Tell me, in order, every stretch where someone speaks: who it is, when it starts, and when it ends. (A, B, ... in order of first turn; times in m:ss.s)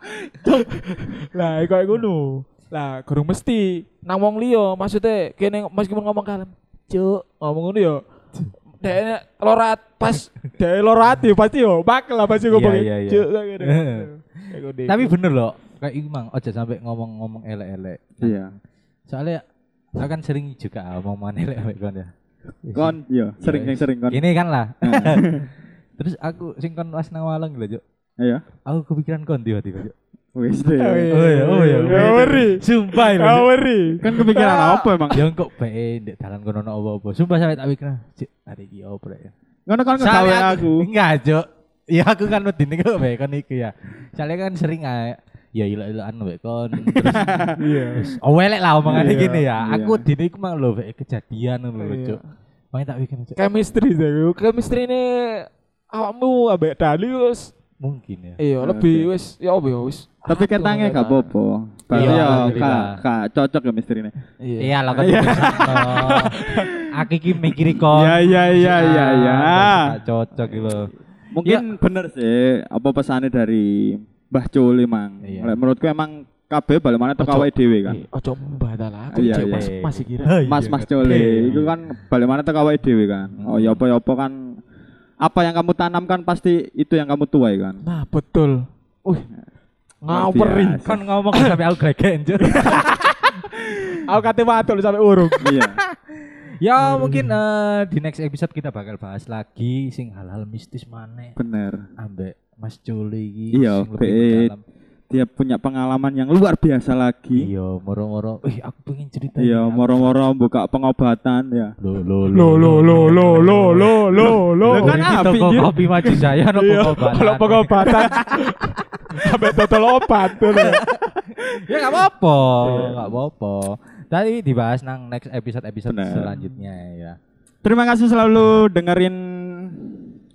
0:00.4-0:08.0 A
0:08.8-0:15.2 A
0:12.5-0:14.1 B
0:14.9-0:18.4 B
0:18.2-0:18.5 C
0:19.1-0:19.4 B
0:19.9-0:22.1 B
0:22.6-0:27.8 B
0:22.7-0:24.2 C
0:24.8-0:25.5 C
0:28.2-0:28.4 C
0:28.6-0:29.9 B
0:30.3-0:31.1 C
0:30.7-0:34.9 A
0:31.1-0:33.5 B
0:31.9-0:32.3 C
0:34.0-0:35.2 C
0:35.1-0:39.3 B
0:39.7-0:40.9 C
0:40.0-0:52.2 B
0:46.9-0:47.6 C
0:47.5-0:48.1 A
0:48.8-0:50.0 C
0:48.9-0:49.4 A
0:51.8-0:52.2 A
0:52.7-0:53.4 B
0:53.4-0:57.5 A
0:57.8-0:58.4 B
0:58.4-1:01.3 A
0:58.6-0:59.1 C
1:00.3-1:04.1 C
1:01.9-1:03.0 B
1:01.9-1:02.8 A
1:04.4-1:06.7 A
1:04.6-1:10.9 B
1:04.9-1:06.9 C
1:07.8-1:10.0 C
1:08.3-1:09.6 A
1:11.3-1:18.0 C
1:15.2-1:15.6 B
1:17.2-1:20.4 A
1:19.1-1:19.7 C
1:19.1-1:21.9 B
1:20.5-1:24.4 C
1:21.0-1:21.6 A
1:23.4-1:23.8 B
1:25.2-1:27.8 C
1:27.8-1:29.2 A
1:30.0-1:31.5 A
1:30.1-1:31.0 C
1:30.8-1:33.3 B
1:32.5-1:33.3 A
1:34.0-1:35.5 A
1:35.4-1:35.8 C
1:35.5-1:41.4 B
1:36.8-1:37.3 A
1:41.4-1:41.8 C
1:42.0-1:44.6 B
1:43.5-1:44.5 C
1:45.1-1:47.5 C
1:47.4-1:50.1 B
1:49.4-1:51.8 C
1:51.8-1:58.5 B
1:52.3-1:55.1 A
1:54.6-1:55.9 C
1:56.0-2:00.8 A
2:00.4-2:07.2 B
2:02.6-2:03.0 A
2:02.6-2:03.0 C
2:05.9-2:06.3 C
2:07.6-2:10.0 C